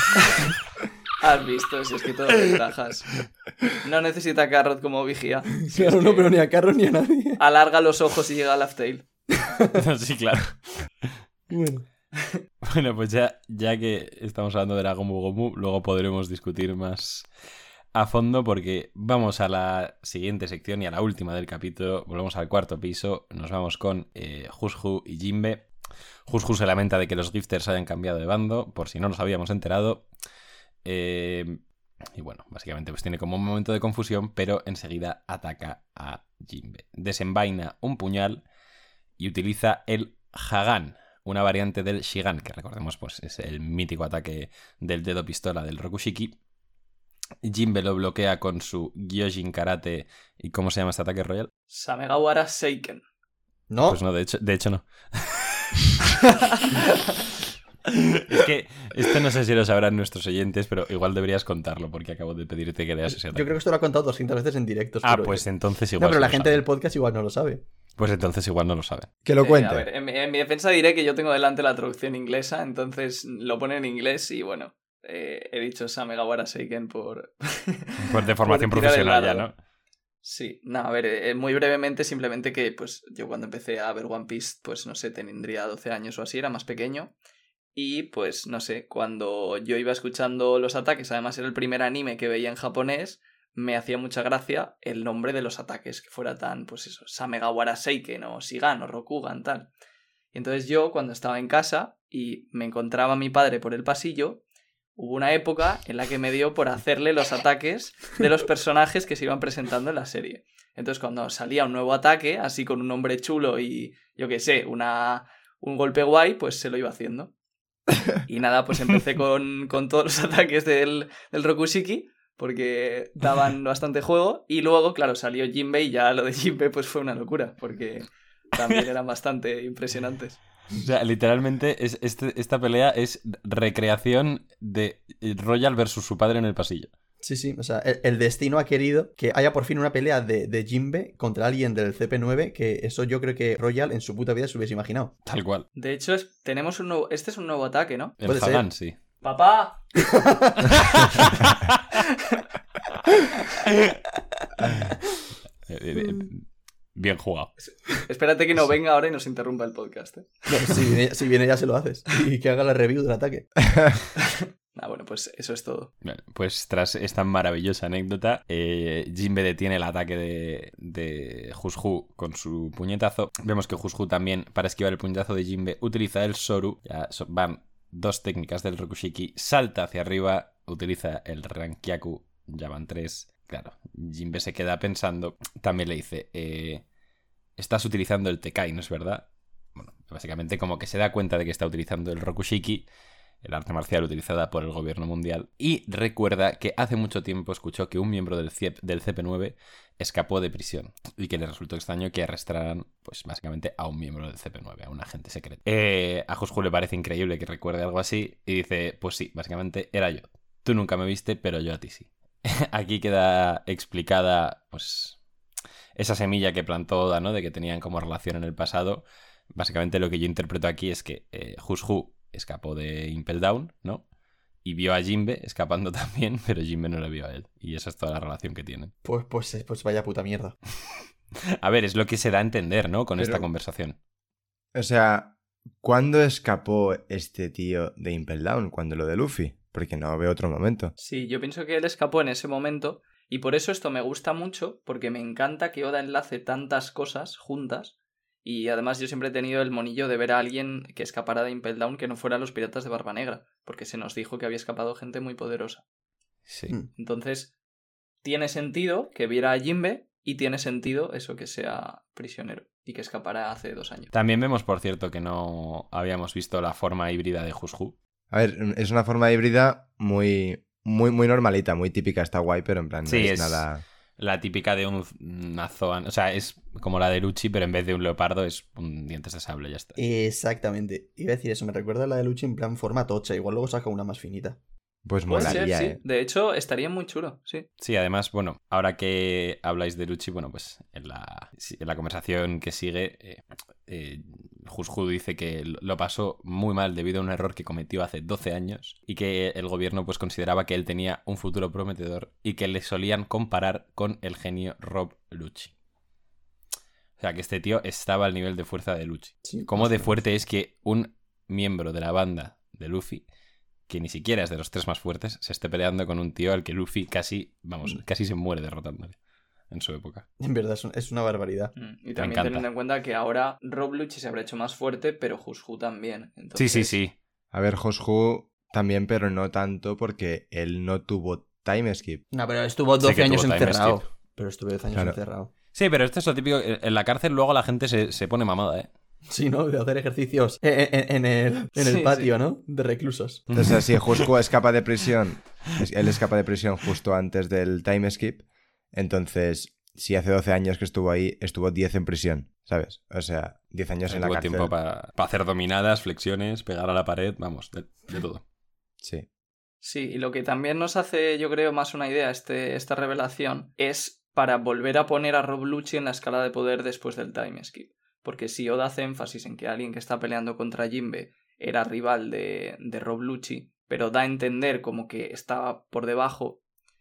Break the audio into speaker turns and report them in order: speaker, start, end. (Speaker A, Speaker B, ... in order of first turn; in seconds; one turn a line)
Speaker A: 1.2-3.2
Speaker A: 3.8-6.3
Speaker B: 5.7-7.4
Speaker A: 7.4-9.0
Speaker B: 9.4-9.8
Speaker C: 9.7-11.1
Speaker B: 11.5-11.8
Speaker C: 12.6-17.3
Speaker C: 17.9-25.7
Speaker C: 26.3-30.1
Speaker C: 30.8-31.6
Speaker C: 32.1-38.4
Speaker C: 39.2-46.4
Speaker C: 47.4-51.5
Speaker A: 51.7-53.0
Speaker B: 53.7-54.0
Speaker C: 53.9-55.8
Speaker C: 57.9-63.5
Speaker B: 63.1-65.5
Speaker C: 65.0-66.6
Speaker B: 66.0-67.6
Speaker C: 68.0-69.1
Speaker D: 69.2-69.9
Speaker A: 69.4-79.5
Speaker C: 78.0-79.5
Speaker A: 80.2-87.1
Speaker A: 87.7-99.7
Speaker A: 100.3-104.4
Speaker A: 105.0-117.3
Speaker A: 118.2-130.4
Speaker C: 130.7-136.9
Speaker B: 137.2-145.1
Speaker C: 145.2-145.7
Speaker A: 145.7-148.1
Speaker C: 148.2-148.9
Speaker B: 148.2-148.7
Speaker A: 149.2-149.9
Speaker B: 150.2-150.8
Speaker C: 150.8-151.8
Speaker C: 155.7-157.5
Speaker A: 157.6-160.4
Speaker B: 160.5-163.5
Speaker A: 164.7-165.9
Speaker C: 166.0-186.8
Speaker C: 187.6-192.9
Speaker C: 193.4-215.2
Speaker C: 215.9-224.0
Speaker C: 224.6-228.9
Speaker B: 229.0-230.6
Speaker C: 231.6-233.9
Speaker D: 233.2-233.4
Speaker D: 234.7-240.9
Speaker A: 241.0-255.8
Speaker C: 256.5-256.7
Speaker A: 256.9-257.5
Speaker A: 258.2-264.1
Speaker C: 264.1-267.9
Speaker D: 268.3-273.8
Speaker C: 273.1-280.0
Speaker B: 280.0-284.6
Speaker D: 285.1-286.0
Speaker A: 285.2-287.7
Speaker C: 287.8-305.7
Speaker C: 307.2-313.2
Speaker B: 309.4-310.1
Speaker C: 313.9-319.2
Speaker C: 319.7-320.3
Speaker B: 320.4-321.7
Speaker A: 321.7-326.9
Speaker C: 322.1-322.6
Speaker C: 326.6-327.1
Speaker D: 327.5-332.2
Speaker B: 332.3-335.5
Speaker C: 333.0-334.0
Speaker C: 335.7-338.9
Speaker B: 339.3-343.5
Speaker A: 341.8-342.3
Speaker C: 343.5-344.2
Speaker D: 343.5-354.7
Speaker C: 354.1-358.4
Speaker D: 359.0-359.3
Speaker A: 359.8-376.6